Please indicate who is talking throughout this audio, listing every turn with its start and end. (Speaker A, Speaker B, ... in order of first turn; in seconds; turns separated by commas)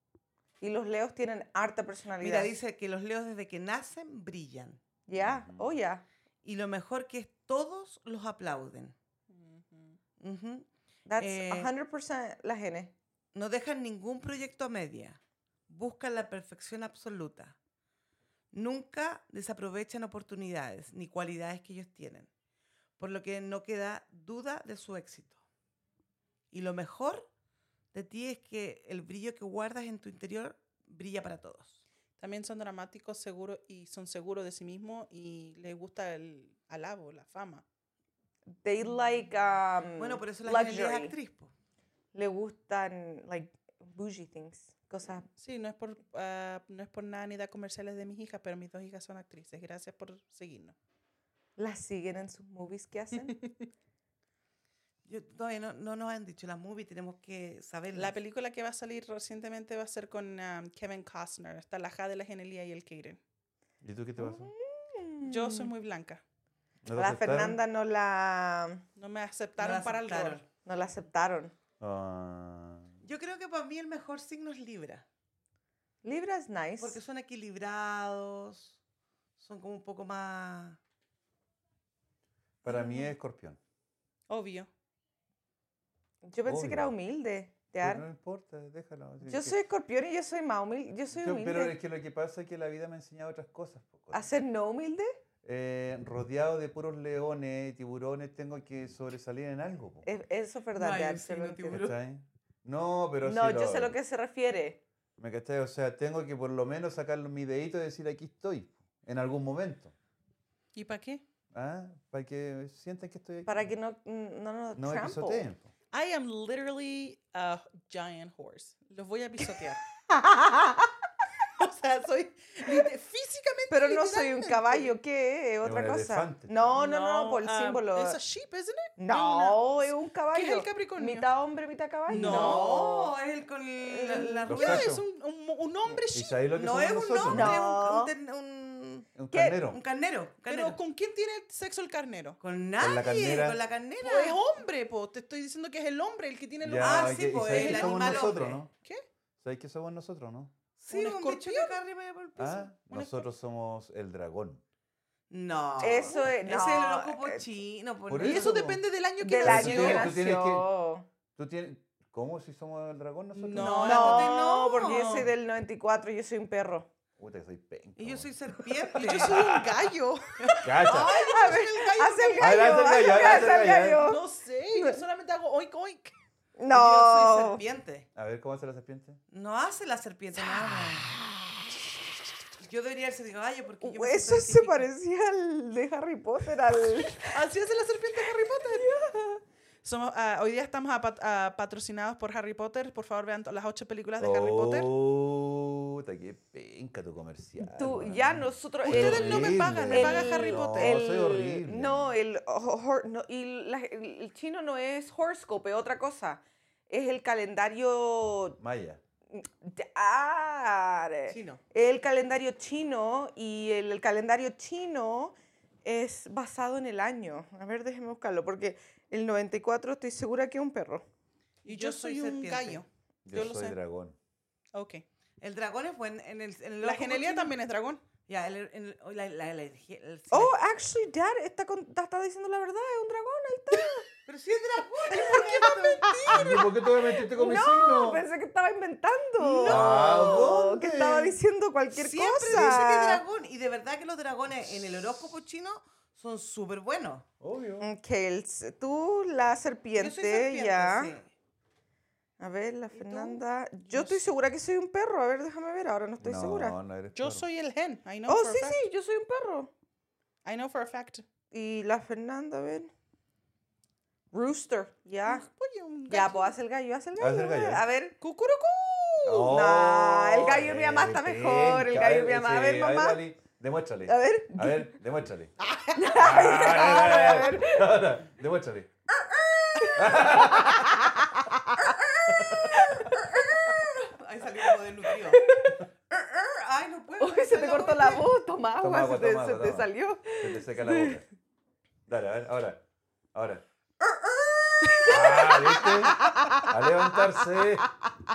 Speaker A: 0.6-2.5, Speaker B: 2.2-4.8, Speaker A: 5.1-6.0, Speaker C: 5.1-5.8, Speaker B: 6.4-8.9, Speaker D: 9.3-10.0, Speaker B: 10.2-10.7, Speaker A: 11.1-12.9, Speaker B: 11.2-11.7, Speaker B: 13.3-17.6, Speaker B: 18.5-22.3, Speaker B: 23.0-25.4, Speaker B: 26.5-27.3, Speaker B: 27.9-31.8, Speaker D: 32.2-37.6, Speaker A: 38.6-41.1, Speaker B: 40.0-41.5, Speaker A: 42.1-45.3, Speaker D: 45.4-50.7, Speaker A: 51.6-53.3, Speaker D: 53.2-53.7, Speaker B: 55.0-58.1, Speaker D: 57.9-63.2, Speaker C: 63.8-64.5, Speaker A: 64.2-65.7, Speaker D: 65.2-66.2, Speaker C: 66.8-67.6, Speaker A: 66.9-68.8, Speaker D: 69.0-70.4, Speaker B: 69.6-70.5, Speaker A: 70.6-71.5, Speaker C: 71.8-72.9, Speaker B: 73.0-75.0, Speaker A: 76.0-77.0, Speaker B: 76.8-78.8, Speaker B: 79.4-80.8, Speaker C: 82.6-83.6, Speaker D: 84.3-84.7, Speaker A: 86.2-88.0, Speaker C: 86.5-86.9, Speaker C: 87.8-89.6, Speaker A: 89.2-91.7, Speaker C: 91.1-94.3, Speaker A: 94.1-95.2, Speaker C: 95.4-100.1, Speaker A: 100.0-101.9, Speaker B: 100.8-102.0, Speaker C: 101.7-103.9, Speaker A: 103.2-104.8, Speaker C: 105.2-109.9, Speaker D: 110.7-111.2, Speaker C: 111.5-113.7, Speaker A: 113.5-115.5, Speaker C: 114.8-115.7, Speaker D: 115.9-119.8, Speaker A: 120.1-120.9, Speaker D: 121.6-124.9, Speaker A: 123.7-128.2, Speaker C: 125.6-126.8, Speaker D: 126.7-131.3, Speaker A: 129.0-133.1, Speaker D: 132.1-132.7, Speaker B: 132.1-135.0, Speaker A: 133.8-134.5, Speaker C: 134.5-135.0, Speaker D: 134.5-136.4, Speaker C: 136.1-137.6, Speaker B: 136.5-139.1, Speaker A: 137.3-138.1, Speaker C: 139.1-139.8, Speaker A: 139.3-139.6, Speaker B: 139.6-140.8, Speaker D: 140.5-142.4, Speaker B: 142.4-144.4, Speaker C: 142.8-143.6, Speaker D: 144.0-149.0, Speaker C: 146.6-148.7, Speaker B: 146.7-148.6, Speaker C: 149.4-150.5, Speaker B: 150.8-152.7, Speaker D: 150.9-151.8, Speaker C: 152.4-154.6, Speaker D: 152.9-153.2, Speaker B: 155.3-158.7, Speaker A: 155.8-157.4, Speaker C: 158.1-158.8, Speaker D: 158.2-160.2, Speaker A: 159.2-161.1, Speaker C: 159.4-160.7, Speaker C: 161.3-163.8, Speaker D: 163.3-165.3, Speaker B: 163.5-165.2, Speaker A: 163.8-166.9, Speaker C: 167.2-168.3, Speaker B: 168.0-169.6, Speaker D: 168.9-170.5, Speaker B: 170.4-173.2, Speaker C: 170.6-171.2, Speaker A: 170.9-174.2, Speaker C: 172.4-174.1, Speaker D: 173.5-176.1, Speaker A: 176.6-177.6, Speaker B: 176.7-178.1, Speaker C: 178.1-179.2, Speaker B: 179.3-181.2, Speaker A: 180.7-181.5, Speaker B: 182.6-184.8, Speaker A: 183.8-187.3, Speaker D: 187.3-188.9, Speaker A: 188.6-189.4, Speaker D: 189.8-194.9, Speaker C: 194.2-202.1, Speaker A: 197.6-208.6, Speaker D: 198.8-200.9, Speaker C: 208.6-209.0, Speaker A: 209.3-221.0, Speaker B: 211.3-211.6, Speaker D: 221.6-223.8, Speaker B: 221.7-222.8, Speaker C: 223.2-224.2, Speaker D: 224.7-225.0, Speaker B: 225.4-227.6, Speaker D: 226.8-228.0, Speaker B: 228.3-230.6, Speaker A: 230.3-234.1, Speaker B: 234.2-236.5, Speaker D: 235.1-236.7, Speaker C: 236.3-238.3, Speaker A: 237.1-243.2, Speaker B: 239.4-240.5, Speaker C: 239.6-241.4, Speaker B: 241.9-247.2, Speaker C: 242.5-242.9, Speaker C: 247.4-247.9, Speaker A: 247.8-251.1, Speaker B: 249.9-251.3, Speaker A: 252.4-256.8, Speaker B: 252.9-253.4, Speaker D: 253.9-254.2, Speaker C: 256.2-257.5, Speaker D: 257.1-258.8, Speaker A: 258.3-259.7, Speaker D: 260.4-261.2, Speaker A: 261.5-262.9, Speaker A: 264.3-265.5, Speaker D: 265.2-266.5, Speaker A: 266.1-268.1, Speaker C: 267.2-267.8, Speaker D: 268.2-269.5, Speaker C: 269.2-275.5, Speaker A: 269.4-273.2, Speaker A: 274.1-274.9, Speaker A: 275.9-278.0, Speaker C: 276.1-278.9, Speaker A: 279.7-284.1, Speaker C: 279.9-281.2, Speaker C: 282.3-283.1, Speaker B: 283.7-285.4, Speaker A: 285.2-285.8, Speaker B: 286.1-288.3, Speaker A: 287.2-291.2, Speaker C: 288.8-291.2, Speaker C: 292.1-293.6, Speaker A: 294.8-296.7, Speaker C: 295.0-297.9